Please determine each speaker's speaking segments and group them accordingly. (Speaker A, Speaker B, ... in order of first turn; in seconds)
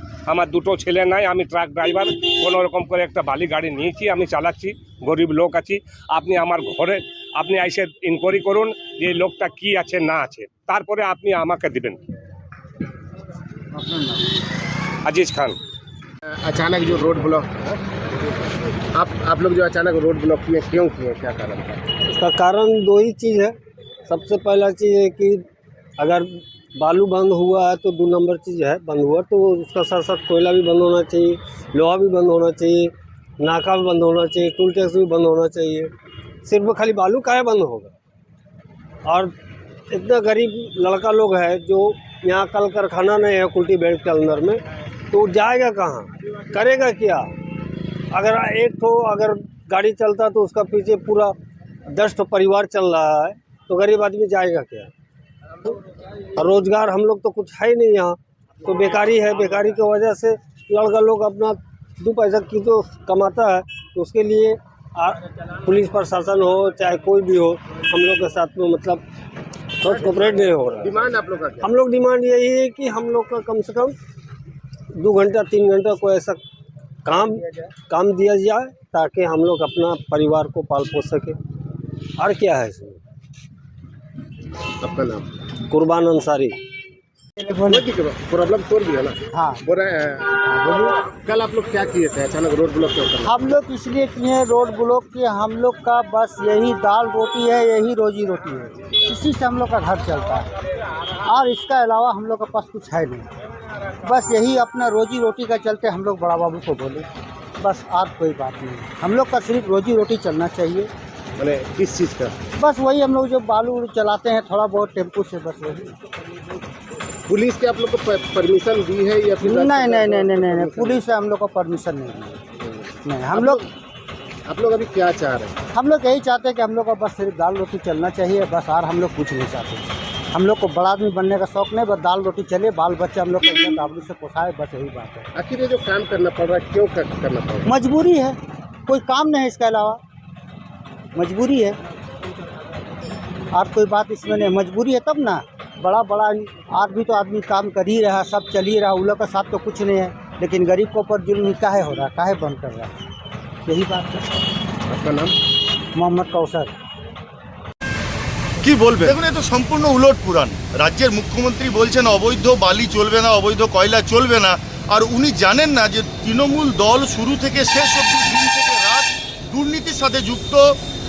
Speaker A: 0.3-12.0, 15.1-15.6
Speaker B: 13.8-14.3, 87.4-87.9, 89.3-89.7, 90.4-90.9, 93.2-100.5, 101.2-103.3, 104.0-107.1, 107.6-110.9, 112.6-116.0, 119.4-122.4, 123.0-123.6, 125.7-135.3, 137.6-140.0, 141.2-141.8, 143.5-152.9, 153.7-154.2, 155.9-156.7
Speaker C: 16.3-21.8, 71.0-71.6, 84.8-85.3, 87.7-90.3, 91.2-93.3, 111.4-112.4, 117.3-121.0, 122.6-123.5, 124.5-125.6, 135.3-137.7, 154.9-155.3
Speaker D: 22.1-25.4, 26.0-35.9, 36.5-37.9, 39.0-39.3, 39.9-44.6, 45.1-47.3, 48.1-51.4, 51.9-54.9, 56.3-69.0, 69.8-74.0, 75.0-76.4, 77.0-81.4, 82.2-83.0, 85.7-86.6
Speaker E: 158.7-170.8